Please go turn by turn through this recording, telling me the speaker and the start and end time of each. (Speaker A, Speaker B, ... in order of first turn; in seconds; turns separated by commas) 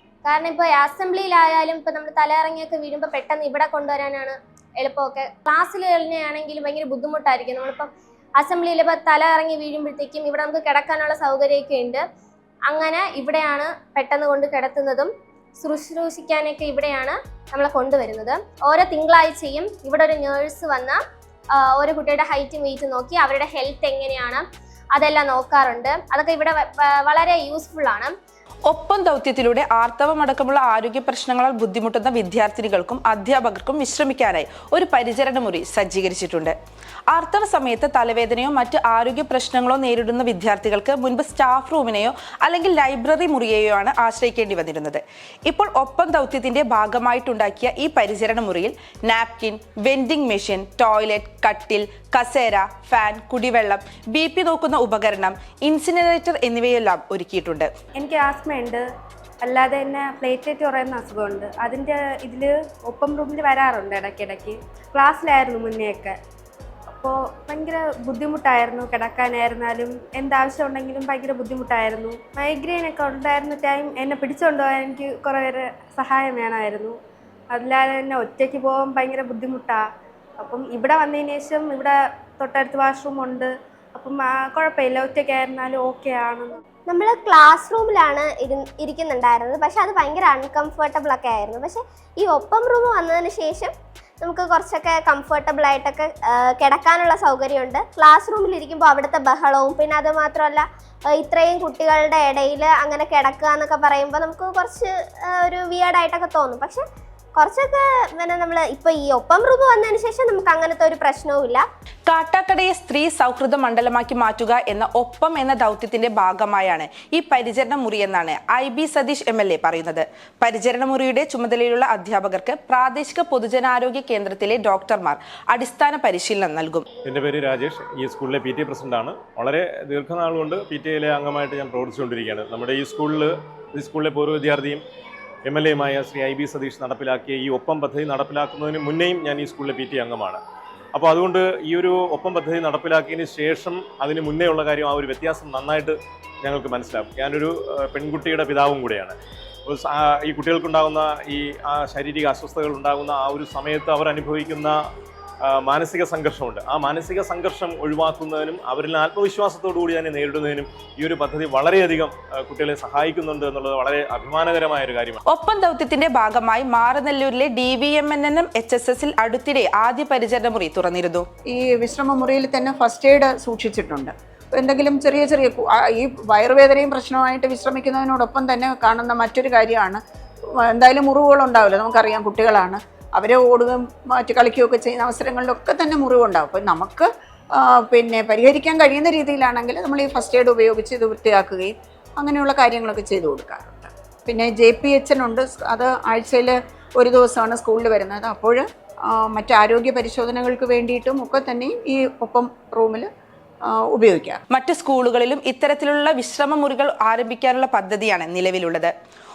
Speaker A: 0.2-12.0, Speaker A: 12.7-21.0, Speaker A: 21.6-24.4, Speaker A: 24.9-28.1, Speaker B: 28.7-36.5, Speaker B: 37.1-57.7, Speaker C: 58.0-58.8, Speaker C: 59.4-66.2, Speaker C: 66.9-77.0, Speaker C: 77.5-79.8, Speaker C: 80.4-86.5, Speaker A: 86.9-106.8, Speaker A: 107.3-111.6, Speaker B: 112.1-126.8, Speaker D: 127.0-134.8, Speaker D: 135.4-140.4, Speaker D: 140.9-149.2, Speaker D: 149.7-154.8, Speaker D: 155.4-165.2, Speaker B: 165.3-171.2, Speaker E: 171.5-180.0, Speaker E: 180.6-203.1, Speaker E: 203.7-204.4, Speaker B: 204.5-208.9